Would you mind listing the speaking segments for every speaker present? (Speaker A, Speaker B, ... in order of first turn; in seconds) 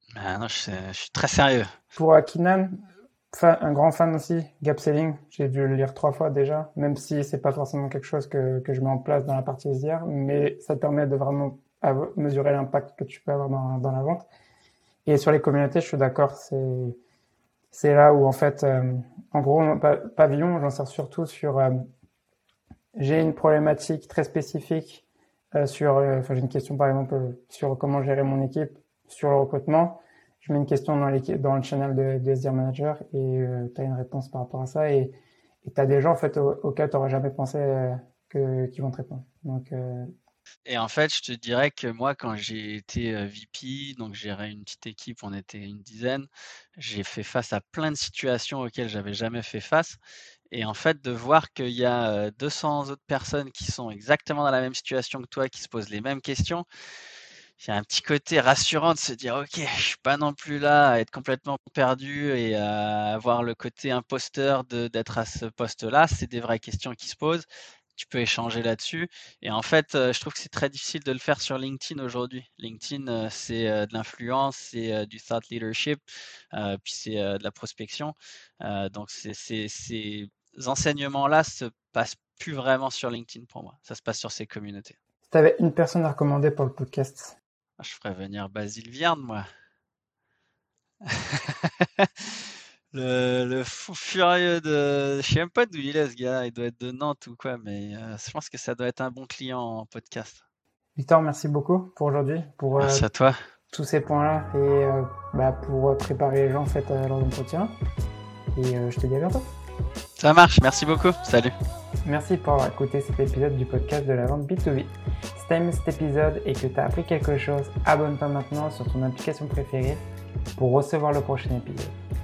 Speaker A: 0.1-1.7, 40.7-50.0, 50.5-56.6, 57.6-76.0, 76.5-85.0, 87.8-89.4, 91.0-100.4, 102.8-103.3, 110.2-111.5
Speaker B: 2.0-14.3, 15.1-17.0, 17.7-21.8, 23.0-25.0, 25.6-40.1, 85.3-87.3, 101.0-103.0, 103.7-107.7, 108.5-109.5, 112.0-120.0, 120.6-121.9